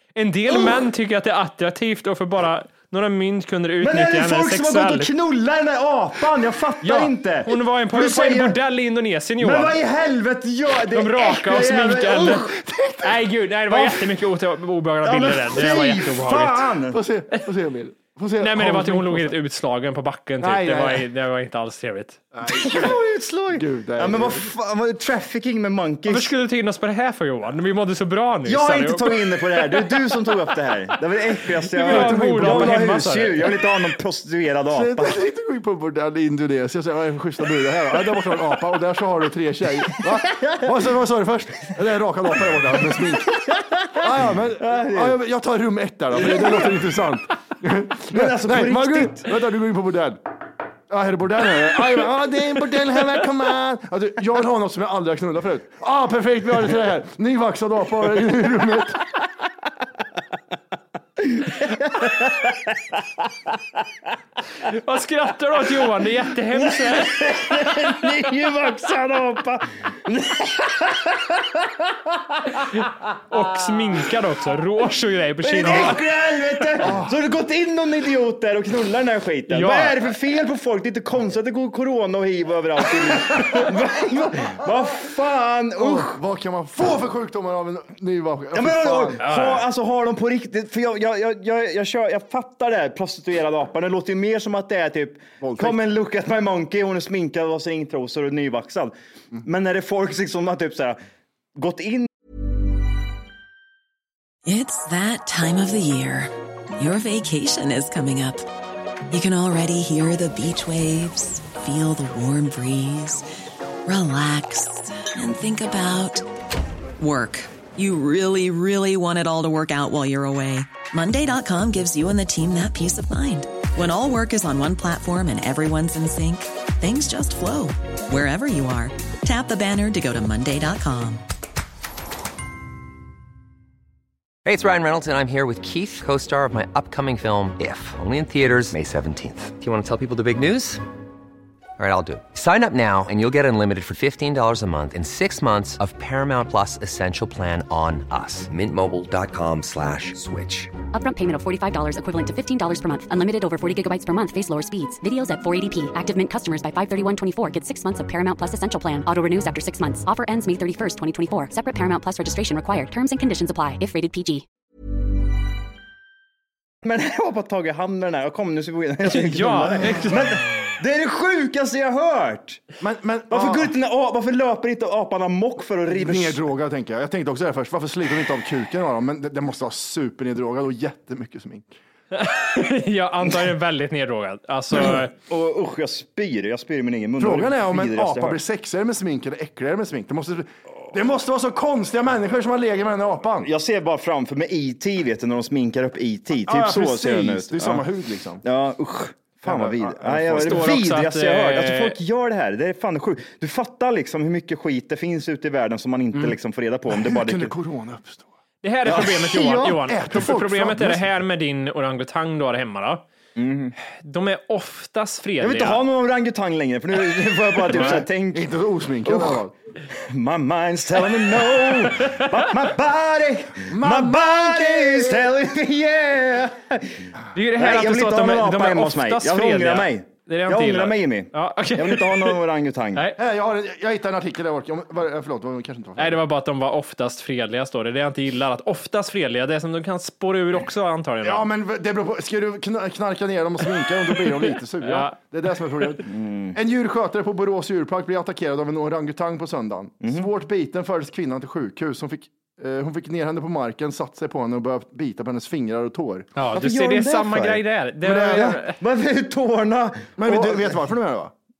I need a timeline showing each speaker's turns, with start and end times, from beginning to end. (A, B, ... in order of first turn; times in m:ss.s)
0:00.1-0:05.1 A
0:00.5-0:00.8 B
0:03.8-0:08.6 B
0:06.8-0:09.8 A
0:09.4-0:12.5 B
0:10.9-0:12.4 A
0:12.5-0:13.2 C
0:13.0-0:16.7 A
0:15.0-0:17.0 B
0:16.9-0:19.3 C
0:18.4-0:22.2 A
0:20.4-0:21.1 C
0:22.3-0:23.0 C
0:22.4-0:26.3 B
0:23.5-0:24.5 C
0:26.1-0:30.2 A
0:28.4-0:35.2 B
0:31.7-0:33.5 A
0:31.8-0:32.8 C
0:34.7-0:43.4 C
0:39.9-0:40.7 B
0:43.2-0:44.1 B
0:44.0-0:50.2 C
0:44.6-0:45.2 B
0:46.2-0:46.7 B
0:48.1-0:49.3 B
0:50.9-0:59.0 C
1:01.2-1:03.0 B
1:04.6-1:07.9 A
1:06.5-1:12.9 B
1:13.3-1:16.0 A
1:15.4-1:26.2 B
1:15.6-1:16.0 C
1:16.8-1:17.2 C
1:19.5-1:20.1 A
1:25.8-1:29.2 C
1:28.5-1:41.0 B
1:29.2-1:29.6 A
1:35.4-1:35.8 C
1:41.6-1:42.1 B
1:44.4-1:48.5 D
1:49.1-1:53.3 D
1:53.8-1:56.2 D
1:57.0-2:11.2 D
2:14.4-2:20.8 E
2:21.8-2:30.7 E
2:30.9-2:44.4 F
2:46.8-2:52.6 B
2:49.0-2:50.4 A
2:52.8-2:53.7 C
2:53.3-2:56.4 B
2:55.9-3:01.7 C
3:02.1-3:05.1 A
3:05.2-3:08.4 B
3:07.2-3:13.5 C
3:13.4-3:17.8 B
3:16.4-3:18.4 C
3:18.4-3:27.5 B
3:19.4-3:20.8 C
3:20.4-3:22.0 A
3:26.9-3:28.3 C
3:28.6-3:33.0 A
3:28.9-3:29.1 B
3:28.9-3:31.1 C
3:33.4-3:33.8 B
3:33.8-3:35.8 A
3:35.4-3:38.5 B
3:37.7-3:39.5 C
3:37.7-3:38.0 A
3:39.0-3:53.0 B
3:41.4-3:42.3 A
3:43.7-3:45.3 C
3:47.3-3:52.4 A
3:52.9-3:53.2 A
3:53.2-3:56.2 C
3:56.0-4:01.5 A
4:01.2-4:16.3 C
4:04.3-4:05.2 A
4:06.0-4:06.6 B
4:10.0-4:10.3 B
4:16.4-4:18.8 A
4:16.5-4:20.8 B
4:18.0-4:18.5 C
4:20.2-4:21.3 C